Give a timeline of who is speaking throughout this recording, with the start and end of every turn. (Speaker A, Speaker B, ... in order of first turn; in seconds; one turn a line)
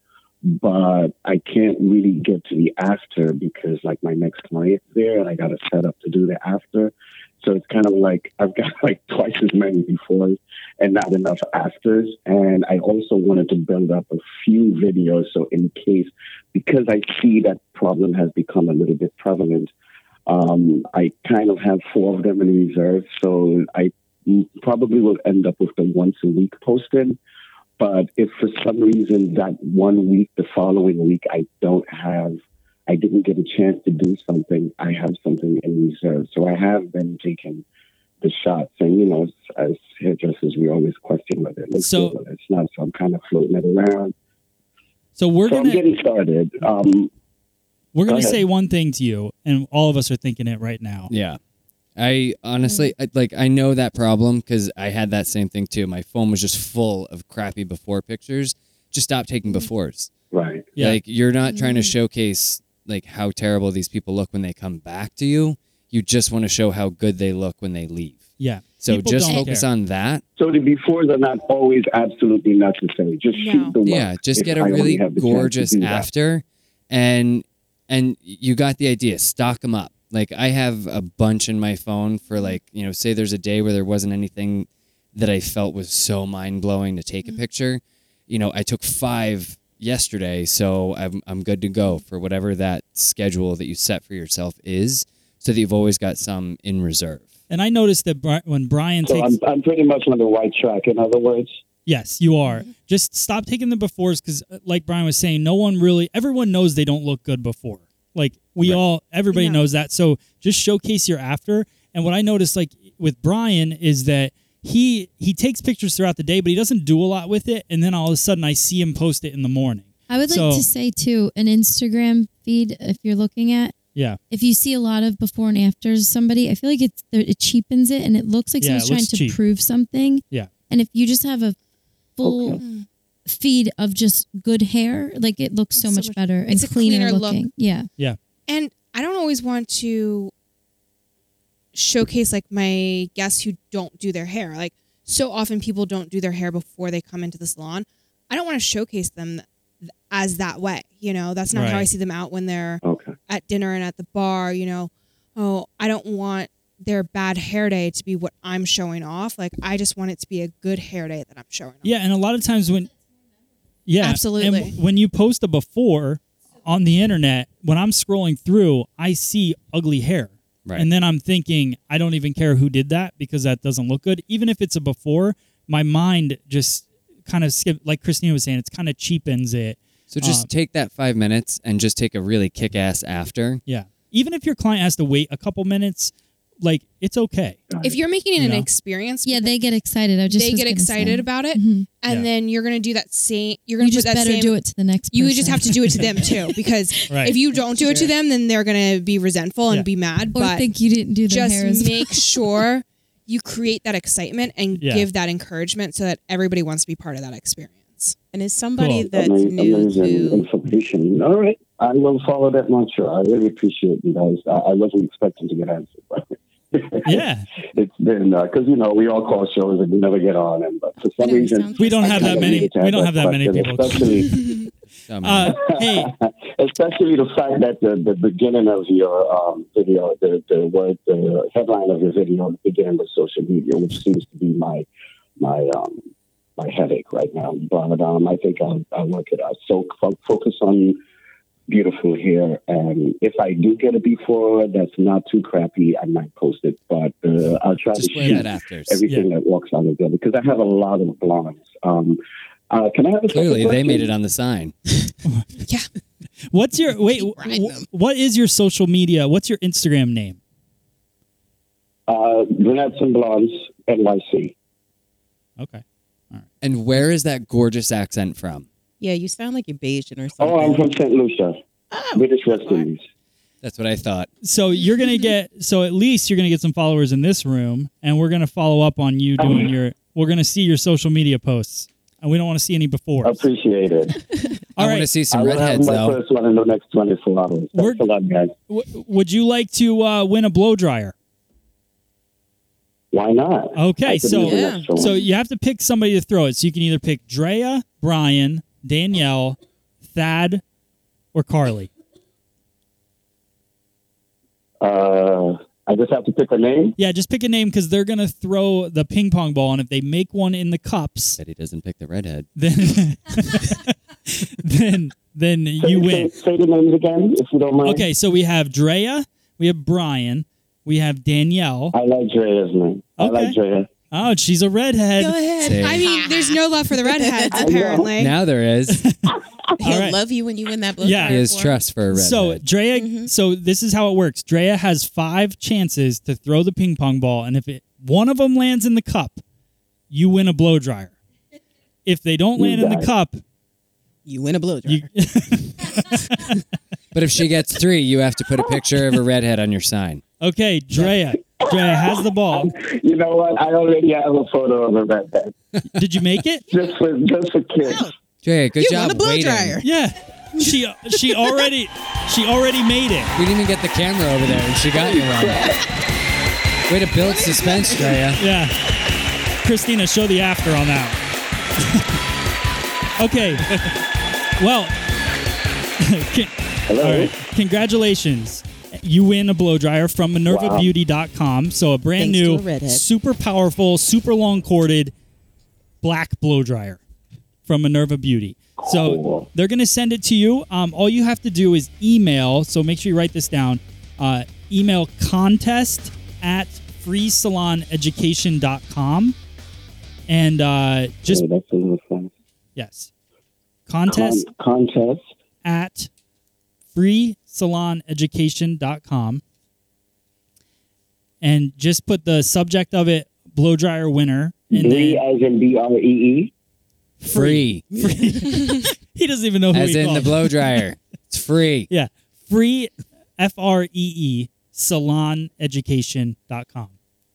Speaker A: 0.5-19.7
Speaker A: 20.3-27.2
Speaker A: 27.8-37.6
Speaker A: 38.2-44.1
Speaker B: 41.8-42.1
Speaker B: 45.1-45.8
Speaker A: 45.5-47.1
Speaker B: 47.9-51.1
Speaker A: 48.0-48.4
Speaker C: 51.1-51.4
Speaker C: 52.0-60.1
Speaker A: 60.3-60.8
Speaker C: 60.8-68.2
Speaker B: 68.4-69.6
Speaker C: 68.8-70.2
Speaker D: 69.2-69.5
Speaker A: 70.4-76.1
Speaker E: 73.3-73.8
Speaker C: 73.8-97.3
Speaker B: 97.5-99.3
Speaker A: 99.0-101.6
Speaker B: 101.8-120.7
Speaker E: 109.3-109.6
Speaker D: 120.1-123.8
Speaker D: 124.3-131.6
Speaker B: 128.6-129.4
Speaker D: 132.2-132.6
Speaker A: 132.2-132.6
Speaker E: 132.6-132.8
Speaker D: 133.2-137.9
Speaker E: 135.7-137.4
Speaker E: 138.5-140.3
Speaker E: 141.7-149.4
Speaker E: 150.1-161.9
Speaker B: 151.5-151.9
Speaker A: 152.8-153.1
Speaker B: 161.8-162.9
Speaker B: 163.8-180.5
Speaker E: 164.0-164.8
Speaker C: 180.1-183.6
Speaker B: 183.7-187.6
Speaker A: 187.7-188.0
Speaker E: 187.8-189.6
Speaker B: 188.4-188.7
Speaker D: 189.2-191.9
Speaker E: 190.3-194.6
Speaker D: 193.8-196.6
Speaker E: 195.1-200.7
Speaker B: 197.1-197.3
Speaker A: 197.8-198.1
Speaker D: 200.3-202.4
Speaker E: 201.2-208.1
Speaker B: 204.8-205.1
Speaker F: 208.3-210.4
Speaker B: 208.8-209.1
Speaker A: 209.1-224.5
Speaker B: 217.0-217.4
Speaker F: 221.2-222.7
Speaker B: 221.8-224.4
Speaker C: 225.1-225.7
Speaker B: 225.2-226.1
Speaker A: 225.6-234.9
Speaker A: 235.4-236.0
Speaker A: 236.6-241.0
Speaker A: 241.7-252.2
Speaker C: 247.9-249.0
Speaker A: 252.7-254.1
Speaker C: 253.3-254.7
Speaker B: 256.5-260.4
Speaker F: 257.1-257.9
Speaker A: 262.1-264.5
Speaker B: 265.6-266.5
Speaker C: 266.6-268.6
Speaker F: 269.0-270.8
Speaker A: 270.4-271.6
Speaker F: 271.9-272.9
Speaker A: 272.1-273.0
Speaker C: 273.6-274.3
Speaker B: 274.4-283.4
Speaker A: 279.4-279.7
Speaker A: 283.2-284.2
Speaker C: 284.8-286.2
Speaker B: 284.8-285.1
Speaker A: 285.3-288.5
Speaker B: 287.7-288.0
Speaker B: 288.7-291.1
Speaker A: 293.1-295.1
Speaker B: 293.8-300.6
Speaker F: 294.4-295.1
Speaker B: 301.3-301.9
Speaker A: 304.8-306.9
Speaker B: 307.0-311.4
Speaker C: 311.4-312.5
Speaker B: 312.6-316.3
Speaker A: 315.8-318.1
Speaker B: 317.8-321.9
Speaker A: 321.9-323.9
Speaker B: 323.2-323.6
Speaker B: 324.1-325.4
Speaker F: 325.2-326.5
Speaker C: 325.6-326.1
Speaker E: 325.8-328.3
Speaker F: 327.1-327.9
Speaker A: 327.5-328.1
Speaker C: 328.1-329.0
Speaker B: 328.9-330.2
Speaker F: 329.8-331.8
Speaker B: 331.0-331.5
Speaker C: 331.2-332.6
Speaker B: 332.1-339.4
Speaker F: 332.9-333.3
Speaker B: 340.1-341.1
Speaker B: 342.1-343.4
Speaker A: 342.6-343.1
Speaker F: 344.2-345.1
Speaker B: 344.9-346.6
Speaker C: 347.1-350.2
Speaker B: 350.4-352.7
Speaker A: 351.6-355.5
Speaker B: 355.8-356.6
Speaker A: 356.7-358.1
Speaker F: 357.8-358.1
Speaker C: 358.4-359.8
Speaker F: 358.8-359.9
Speaker B: 359.8-363.3
Speaker C: 363.3-365.6
Speaker A: 364.9-365.8
Speaker C: 366.9-368.4
Speaker F: 367.2-368.2
Speaker B: 368.4-368.7
Speaker B: 369.6-371.2
Speaker B: 371.8-372.1
Speaker B: 373.2-373.8
Speaker B: 374.6-374.9
Speaker B: 376.0-385.1
Speaker A: 376.9-377.4
Speaker A: 380.5-380.9
Speaker F: 382.2-383.0
Speaker B: 386.0-387.0
Speaker B: 387.6-399.4
Speaker A: 388.8-389.5
Speaker B: 400.3-401.4
Speaker A: 401.2-402.3
Speaker B: 402.8-403.1
Speaker B: 403.9-404.5
Speaker A: 404.1-405.2
Speaker B: 405.6-406.1
Speaker B: 406.9-409.4
Speaker B: 411.4-415.2
Speaker A: 414.7-416.5
Speaker B: 417.2-420.7
Speaker C: 417.3-417.8
Speaker F: 418.0-418.4
Speaker C: 419.7-421.9
Speaker B: 421.9-426.9